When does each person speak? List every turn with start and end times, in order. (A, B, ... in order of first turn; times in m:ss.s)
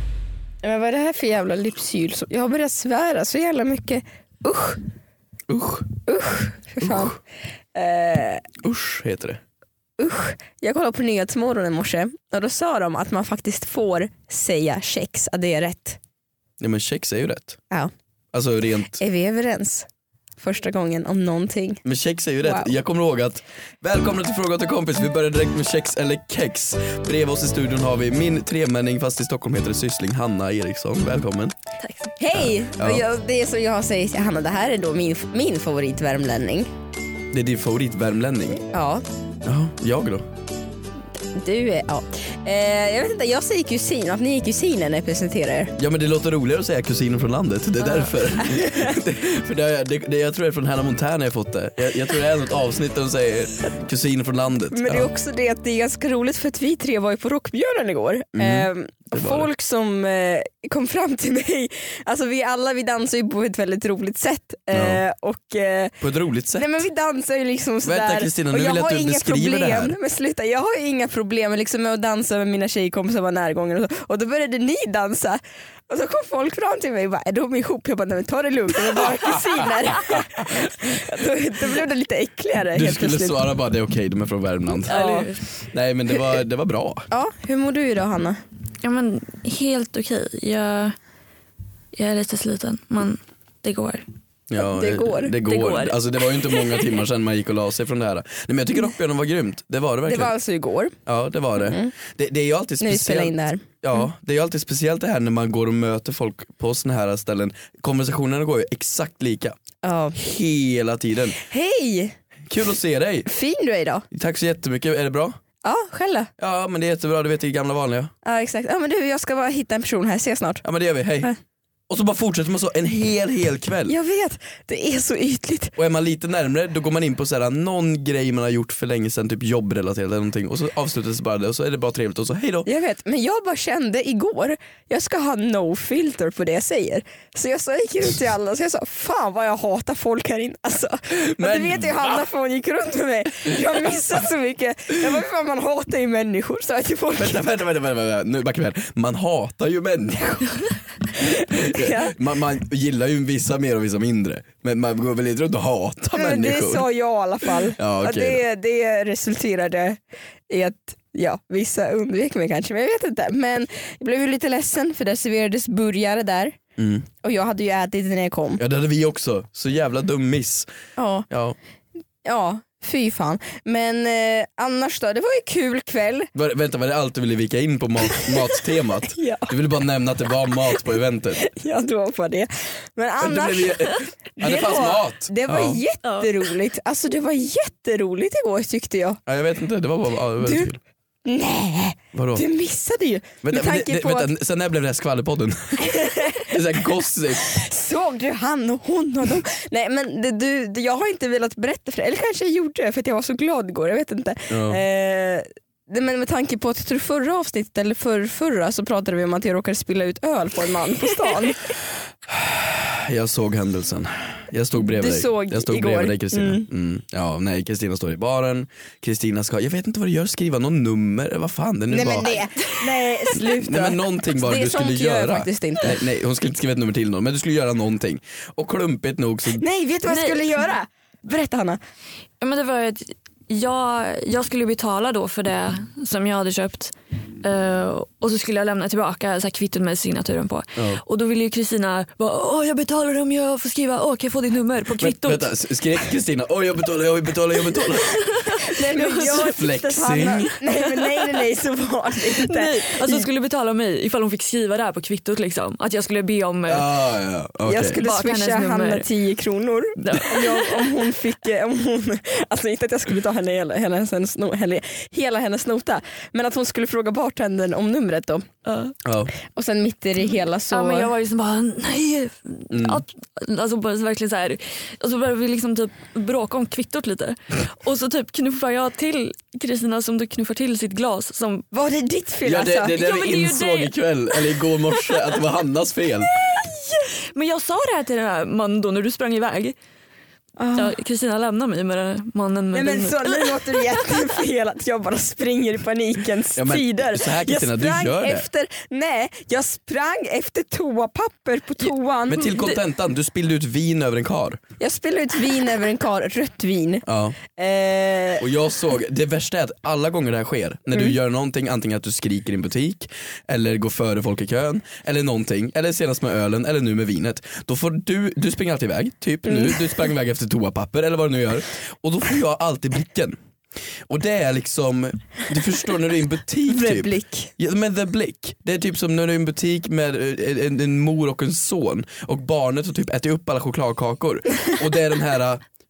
0:00.6-0:04.8 A
0:05.5-0:05.9 B
0:06.0-0:07.2 A
0:06.8-0:07.2 B
0:07.7-0:08.4 A
0:08.6-0:09.4 B
0:10.0-0:16.0 A
0:16.6-0:17.6 B
0:18.3-0:19.0 B
0:19.0-0:19.9 A
0:20.4-0:21.8 A
0:21.8-0:31.5 B
0:22.4-0:22.7 A
0:31.8-0:32.1 C
0:32.2-0:36.7 A
0:32.4-0:33.0 B
0:37.3-0:38.6 B
0:38.7-0:39.0 A
0:39.4-0:40.3 B
0:41.3-0:45.7 A
0:45.8-0:55.1 B
0:47.8-0:49.0 A
0:54.7-1:06.0 A
0:58.3-0:59.5 B
1:04.7-1:05.0 B
1:06.0-1:06.7 B
1:06.6-1:23.4 A
1:07.8-1:10.0 B
1:19.0-1:20.9 B
1:22.7-1:25.0 B
1:24.8-1:25.4 C
1:24.9-1:25.3 A
1:25.7-1:27.1 B
1:27.1-1:28.4 A
1:28.8-1:31.0 C
1:31.9-1:34.0 C
1:34.5-1:40.3 B
1:34.6-1:35.3 A
1:35.4-1:36.9 C
1:40.1-1:41.0 A
1:41.0-1:49.6 B
1:41.6-1:41.9 A
1:42.8-1:43.6 A
1:49.8-1:50.2 A
1:50.2-1:51.4 B
1:51.4-1:52.2 A
1:52.5-1:53.3 B
1:53.2-1:54.0 A
1:54.1-1:55.4 B
1:55.6-1:56.3 A
1:56.4-1:58.1 B
1:58.2-2:00.6 A
2:00.6-2:01.3 B
2:01.9-2:03.9 B
2:03.9-2:05.7 A
2:05.8-2:12.7 B
2:12.6-2:27.4 A
2:21.2-2:22.2 B
2:27.2-2:36.9 B
2:31.2-2:32.1 A
2:36.1-2:46.6 A
2:37.4-2:38.4 B
2:46.8-2:47.1 B
2:47.2-2:48.6 A
2:48.6-2:50.7 B
2:51.0-2:51.3 A
2:51.3-2:51.6 B
2:52.2-2:56.3 A
2:56.3-3:01.4 B
2:59.1-2:59.5 A
3:01.4-3:09.2 A
3:03.2-3:05.8 B
3:09.3-3:10.8 B
3:10.4-3:10.7 A
3:11.2-3:14.3 A
3:12.1-3:12.4 B
3:13.4-3:17.5 B
3:15.8-3:16.6 A
3:17.3-3:31.6 A
3:24.5-3:24.8 B
3:32.3-3:42.4 B
3:34.8-3:36.7 A
3:41.9-3:45.9 A
3:43.4-3:49.6 B
3:49.6-3:51.8 A
3:50.0-3:50.7 C
3:52.4-4:05.5 C
4:05.0-4:08.2 B
4:07.9-4:09.5 C
4:08.6-4:13.2 A
4:09.2-4:10.5 B
4:10.9-4:11.4 C
4:12.4-4:16.9 C
4:16.7-4:18.0 B
4:17.6-4:28.5 A
4:17.9-4:19.1 C
4:20.0-4:21.0 C
4:28.6-4:28.9 C
4:29.0-4:29.3 B
4:29.4-4:31.1 A
4:30.7-4:41.6 C
4:32.7-4:33.0 B
4:41.7-4:43.0 A
4:42.4-4:46.3 B
4:42.9-4:45.4 C
4:46.4-4:49.8 C
4:50.6-4:51.0 A
4:50.8-4:54.4 C
4:52.7-5:02.5 A
4:56.5-4:58.4 B
5:02.3-5:04.6 B
5:04.8-5:08.4 A
5:07.0-5:07.4 B
5:08.4-5:23.4 B
5:19.5-5:19.8 A
5:24.1-5:35.6 B
5:26.7-5:27.5 A